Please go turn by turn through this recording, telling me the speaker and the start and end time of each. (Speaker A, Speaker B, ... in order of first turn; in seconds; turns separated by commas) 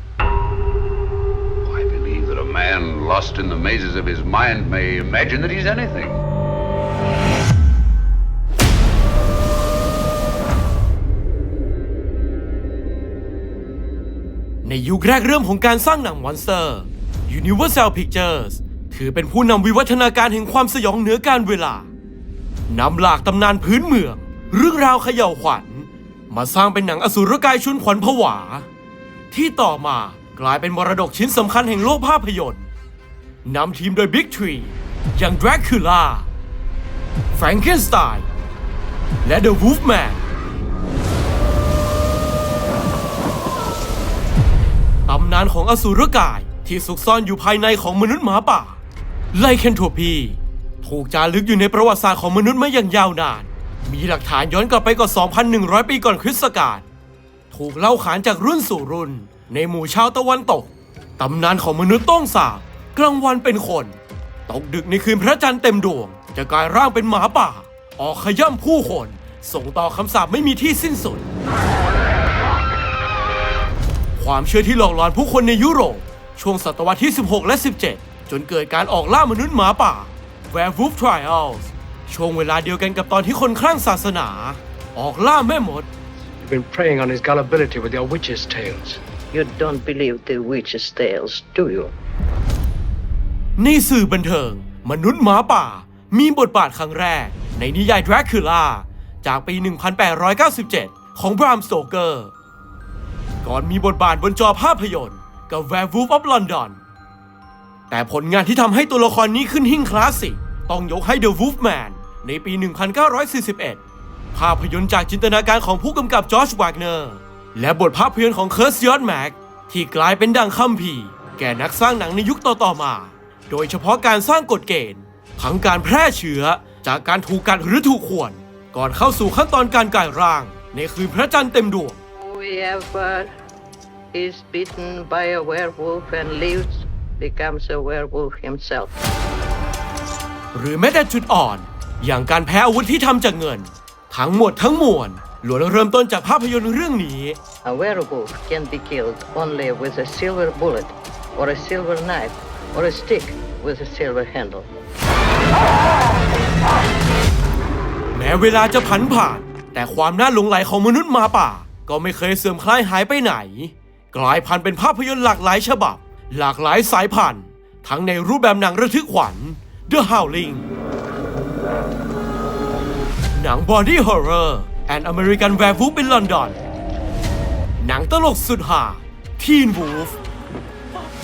Speaker A: 1.6-6.2, Speaker B: 14.6-21.9, Speaker B: 22.7-28.7, Speaker B: 29.3-32.7, Speaker B: 33.4-36.3, Speaker B: 37.3-38.3, Speaker B: 39.2-40.2, Speaker B: 45.1-48.8, Speaker B: 49.3-56.9, Speaker B: 57.5-71.3, Speaker B: 74.2-85.9, Speaker C: 86.4-89.0, Speaker D: 89.3-91.9, Speaker B: 93.6-102.3, Speaker B: 103.4-106.8, Speaker B: 107.9-113.8, Speaker B: 114.3-132.0, Speaker D: 132.2-133.3, Speaker D: 134.1-138.9, Speaker B: 140.5-147.4, Speaker D: 147.6-154.7, Speaker B: 158.1-170.7, Speaker B: 173.3-176.6, Speaker B: 177.8-180.2